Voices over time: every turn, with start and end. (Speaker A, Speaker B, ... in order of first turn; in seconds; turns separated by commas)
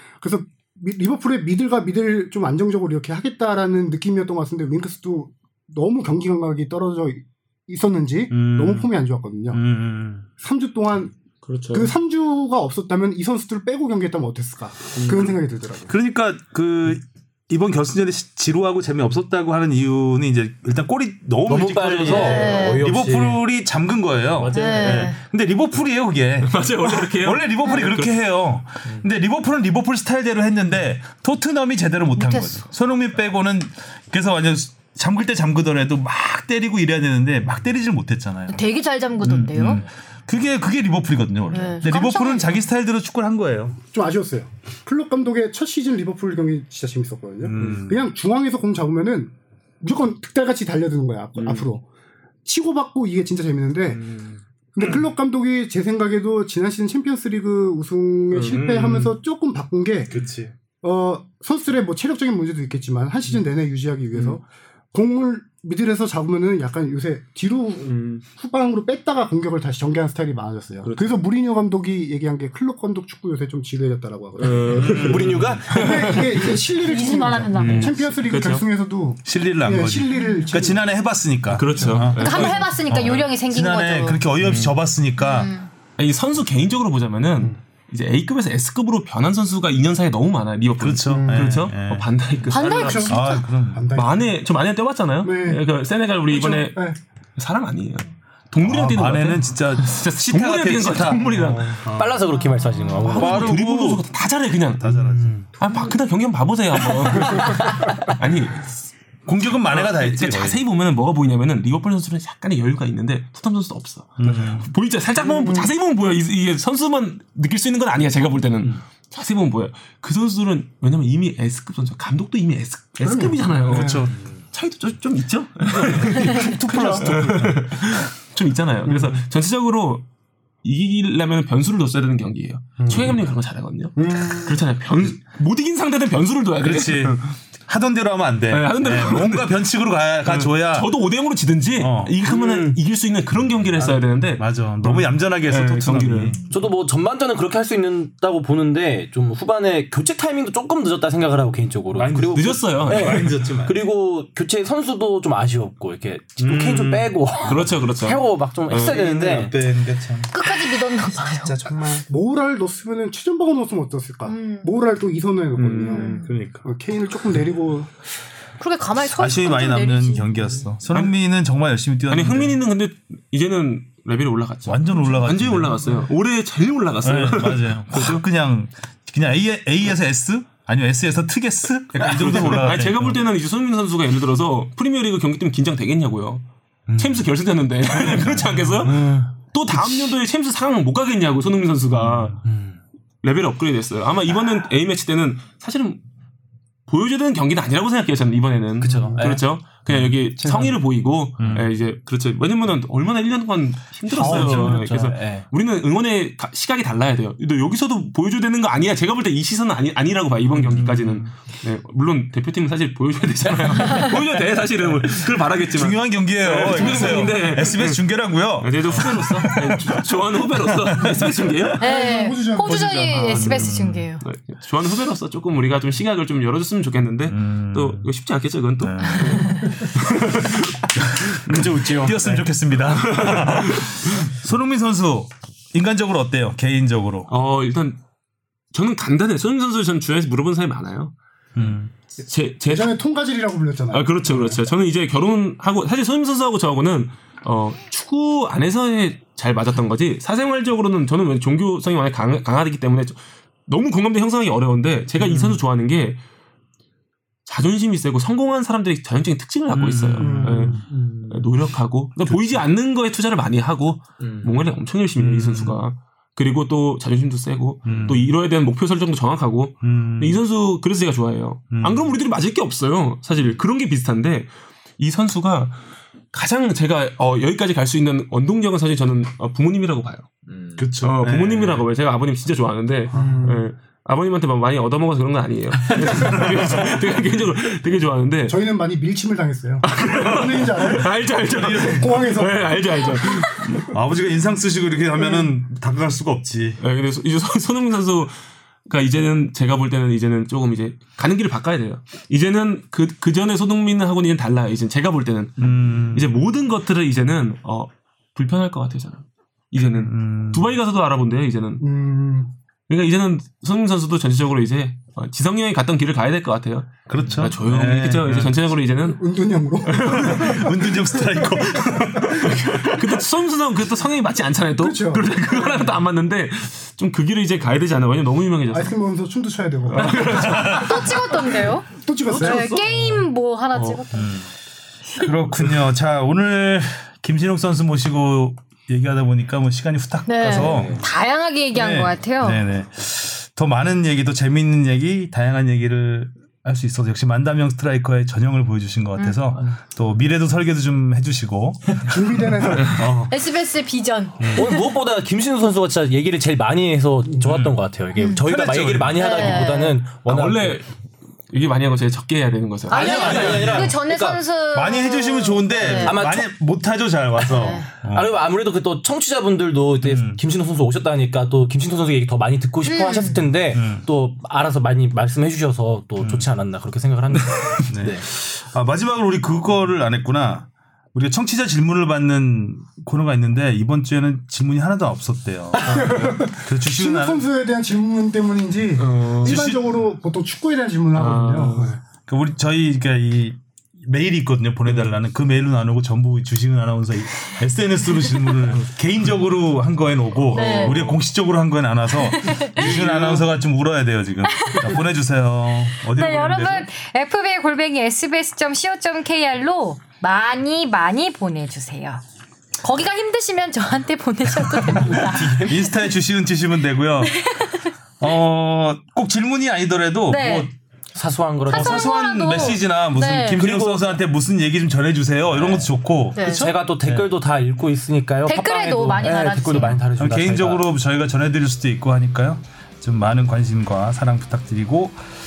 Speaker A: 0.2-9.6, Speaker B: 8.3-8.9, Speaker B: 9.5-10.3, Speaker A: 10.4-11.1, Speaker C: 11.4-11.9, Speaker A: 11.7-15.9, Speaker C: 14.9-15.3, Speaker B: 15.9-38.6, Speaker D: 21.5-23.4, Speaker E: 22.0-22.8, Speaker D: 24.4-25.1, Speaker E: 24.5-25.2, Speaker C: 26.4-28.1, Speaker E: 32.2-32.6, Speaker E: 38.5-39.8, Speaker B: 39.2-43.8, Speaker E: 41.5-42.6, Speaker A: 43.9-51.8, Speaker B: 47.4-48.1, Speaker C: 51.4-51.7, Speaker A: 52.5-54.1, Speaker A: 54.8-60.2, Speaker C: 58.3-59.2, Speaker B: 60.1-60.5, Speaker A: 60.8-75.0, Speaker C: 67.8-68.2, Speaker C: 70.8-71.2, Speaker C: 74.4-76.7, Speaker B: 74.8-75.4, Speaker D: 74.9-76.1, Speaker A: 75.7-80.9, Speaker E: 76.8-78.0, Speaker C: 77.5-78.7, Speaker B: 79.3-85.5, Speaker E: 80.2-80.5, Speaker C: 81.5-82.8, Speaker A: 81.7-82.6, Speaker E: 82.2-84.2, Speaker C: 84.4-84.8, Speaker E: 85.2-85.7, Speaker C: 86.0-93.0, Speaker B: 90.8-93.9, Speaker A: 91.1-91.7, Speaker E: 92.5-93.5, Speaker A: 92.5-94.4, Speaker C: 93.9-101.8, Speaker A: 95.2-95.7, Speaker A: 96.3-97.0, Speaker B: 98.6-102.2, Speaker D: 101.8-103.6, Speaker C: 102.9-105.0, Speaker B: 103.0-104.0, Speaker B: 104.8-105.4, Speaker D: 105.0-105.5, Speaker C: 105.6-108.7, Speaker D: 107.4-108.1, Speaker B: 109.3-110.6, Speaker C: 109.6-130.1, Speaker B: 114.2-114.7, Speaker A: 115.2-115.7, Speaker A: 123.0-124.1, Speaker B: 123.7-124.2, Speaker B: 125.8-128.1, Speaker A: 126.2-127.1, Speaker A: 128.9-129.1, Speaker C: 130.6-137.3, Speaker A: 132.8-133.1, Speaker A: 134.0-134.6, Speaker B: 136.6-140.9, Speaker C: 138.5-139.6, Speaker C: 140.2-146.4, Speaker B: 141.8-142.1, Speaker D: 142.3-142.8, Speaker B: 144.4-146.4, Speaker D: 146.5-159.6, Speaker B: 151.9-153.8, Speaker C: 152.3-153.3, Speaker B: 156.4-157.1, Speaker C: 157.3-159.2, Speaker B: 158.7-160.5, Speaker E: 160.3-161.6, Speaker B: 161.3-162.0, Speaker A: 161.7-167.9, Speaker E: 164.2-164.7, Speaker B: 165.6-166.6, Speaker C: 165.6-166.3, Speaker E: 165.9-166.2, Speaker E: 168.6-170.3, Speaker B: 169.0-172.6, Speaker C: 172.1-178.2, Speaker B: 174.7-176.1, Speaker B: 177.0-183.2, Speaker D: 182.0-182.6, Speaker C: 182.0-186.5, Speaker D: 186.9-187.3, Speaker C: 187.0-192.4, Speaker D: 188.8-189.3, Speaker B: 192.0-192.4, Speaker D: 192.4-192.8, Speaker C: 193.2-196.0, Speaker C: 196.9-218.0, Speaker D: 198.8-199.4, Speaker A: 198.9-199.4, Speaker A: 200.4-200.7, Speaker B: 201.4-201.7, Speaker D: 204.1-205.5, Speaker B: 204.2-204.8, Speaker B: 210.7-211.3, Speaker D: 213.9-214.2, Speaker B: 215.7-220.1, Speaker C: 218.6-221.8, Speaker B: 220.7-221.5, Speaker A: 221.8-223.8, Speaker E: 221.8-224.2, Speaker B: 222.8-224.1, Speaker C: 224.2-230.8, Speaker B: 227.3-228.1, Speaker B: 228.8-229.8, Speaker E: 229.0-229.7, Speaker B: 231.3-237.3, Speaker D: 231.5-232.4, Speaker C: 233.1-233.9, Speaker C: 237.3-238.0, Speaker C: 238.7-241.1, Speaker B: 241.6-241.9, Speaker C: 242.3-243.0, Speaker A: 242.7-244.6, Speaker C: 243.9-256.2, Speaker B: 255.2-255.6, Speaker C: 257.5-275.8, Speaker B: 259.7-260.8, Speaker A: 260.2-260.8, Speaker D: 261.0-261.2, Speaker B: 262.3-262.6, Speaker B: 265.2-265.8, Speaker B: 267.9-268.3, Speaker B: 269.8-270.4, Speaker B: 271.7-272.1, Speaker C: 276.3-280.3, Speaker D: 280.5-280.8, Speaker B: 280.8-281.8, Speaker C: 281.0-288.6, Speaker A: 283.1-283.6, Speaker B: 286.1-286.9, Speaker A: 288.5-293.8, Speaker C: 289.8-293.9, Speaker B: 291.6-292.0, Speaker B: 293.8-296.8, Speaker A: 295.2-295.5, Speaker C: 296.8-298.4, Speaker C: 298.9-311.9, Speaker B: 305.6-306.4, Speaker B: 309.8-310.7, Speaker A: 311.8-312.5, Speaker C: 312.9-319.2, Speaker B: 317.1-318.6, Speaker A: 319.0-322.4, Speaker C: 319.8-320.7, Speaker B: 319.9-323.1, Speaker C: 322.4-329.0, Speaker A: 324.8-325.9, Speaker A: 328.7-332.8, Speaker C: 329.9-331.1, Speaker B: 330.4-331.0, Speaker E: 330.5-334.4, Speaker B: 332.9-333.2, Speaker C: 333.7-334.0, Speaker B: 334.1-334.5, Speaker B: 335.1-341.0, Speaker E: 340.3-342.6, Speaker D: 340.5-341.0, Speaker B: 341.8-352.1, Speaker A: 352.1-353.1, Speaker B: 352.6-353.3, Speaker E: 353.3-354.9, Speaker D: 354.5-360.8, Speaker B: 357.4-357.8, Speaker E: 358.2-358.5, Speaker B: 358.4-359.6, Speaker E: 359.1-360.0, Speaker C: 360.2-360.9, Speaker C: 361.5-363.9, Speaker E: 362.9-366.3, Speaker D: 362.9-364.4, Speaker B: 363.0-363.9, Speaker B: 364.7-368.4, Speaker D: 365.9-366.5, Speaker E: 367.4-367.9, Speaker D: 368.0-378.3, Speaker B: 370.0-370.4, Speaker E: 372.8-373.3, Speaker B: 373.7-374.1, Speaker B: 376.2-376.5, Speaker B: 377.9-387.5, Speaker A: 385.8-392.0, Speaker C: 385.9-386.2, Speaker C: 389.0-389.7, Speaker B: 389.4-390.0, Speaker C: 391.1-392.0, Speaker B: 392.3-406.9, Speaker E: 400.5-401.0, Speaker C: 400.5-401.2, Speaker E: 402.3-402.8, Speaker C: 402.7-403.4, Speaker E: 404.5-405.0, Speaker E: 406.1-412.2, Speaker E: 412.8-415.8, Speaker B: 414.9-417.5, Speaker D: 415.2-415.8, Speaker E: 417.4-417.9, Speaker B: 418.2-420.7, Speaker E: 420.3-420.7, Speaker D: 421.1-422.1, Speaker E: 421.7-423.7, Speaker B: 421.7-427.3, Speaker D: 423.6-424.0, Speaker D: 425.5-430.9, Speaker E: 426.4-426.7, Speaker E: 428.5-430.0, Speaker B: 430.2-435.2